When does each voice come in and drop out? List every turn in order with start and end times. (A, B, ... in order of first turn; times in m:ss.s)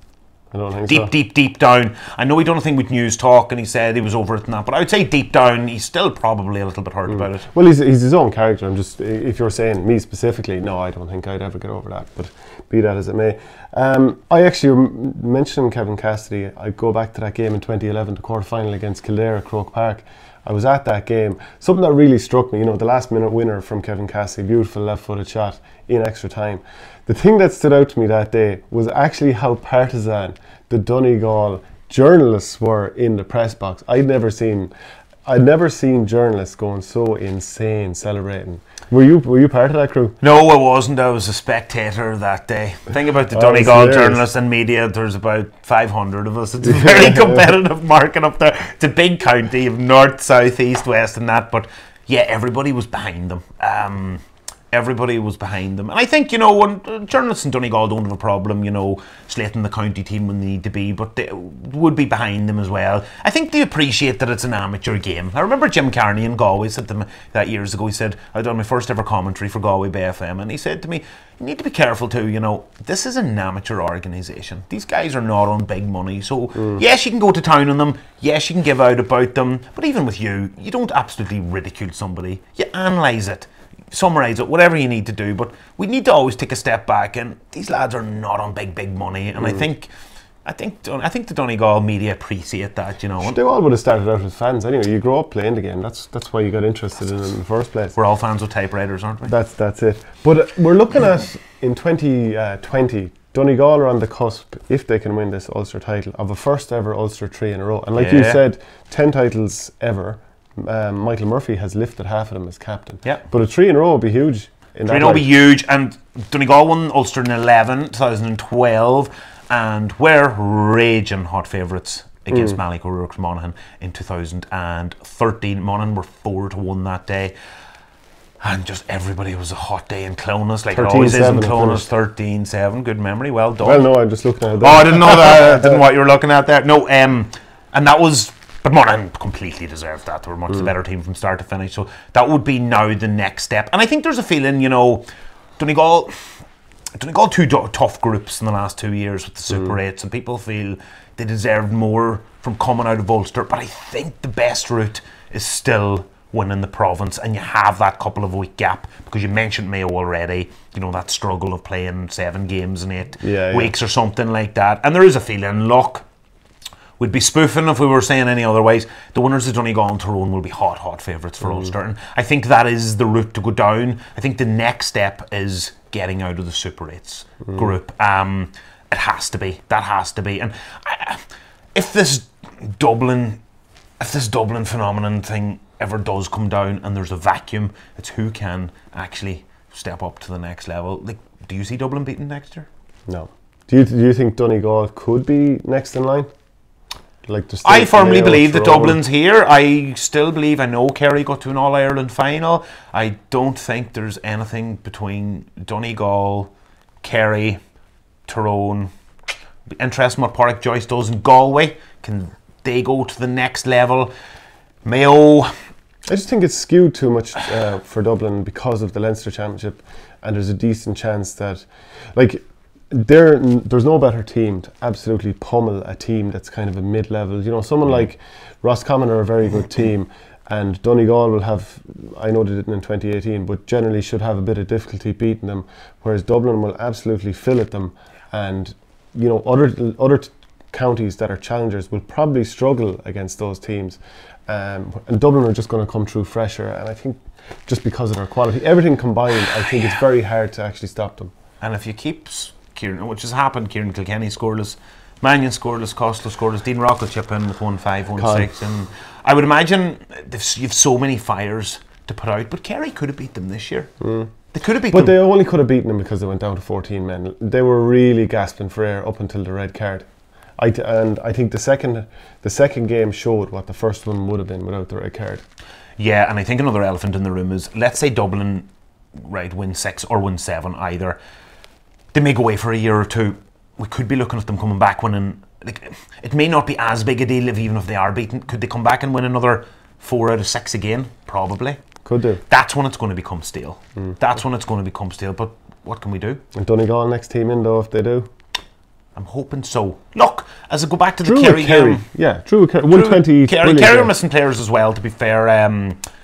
0:00.5-0:01.1 A
0:00.9-0:07.5 B
0:07.2-0:34.7 A
0:35.3-0:40.2 A
0:40.2-1:29.9 B
0:43.3-0:44.2 A
0:46.6-0:47.4 A
1:30.4-1:33.4 B
1:33.2-1:38.0 A
1:38.0-1:39.3 B
1:39.3-1:55.3 A
1:48.0-1:48.4 B
1:54.8-2:07.3 B
2:02.3-2:02.6 A
2:08.4-2:13.8 B
2:10.7-2:11.9 A
2:13.6-2:15.8 A
2:14.6-2:25.0 B
2:25.6-2:26.1 B
2:27.0-2:46.0 B
2:43.2-2:43.7 A
2:47.0-3:01.2 B
3:01.8-3:03.4 B
3:04.0-3:12.7 B
3:13.1-3:16.3 A
3:17.3-3:19.0 A
3:17.6-3:26.5 B
3:27.0-3:27.6 B
3:28.3-3:28.9 B
3:29.8-3:34.1 B
3:34.8-3:35.5 B
3:36.1-4:11.3 A
4:11.6-4:23.9 B
4:18.2-4:18.5 A
4:24.0-4:24.3 A
4:24.5-4:25.2 B
4:24.9-4:30.1 A
4:30.6-4:35.4 A
4:36.0-4:41.2 B
4:42.1-4:51.8 B
4:52.0-4:52.4 A
4:52.5-4:56.4 B
4:56.5-4:58.3 A
4:59.2-5:02.0 B
5:01.2-5:04.1 A
5:02.9-5:06.0 B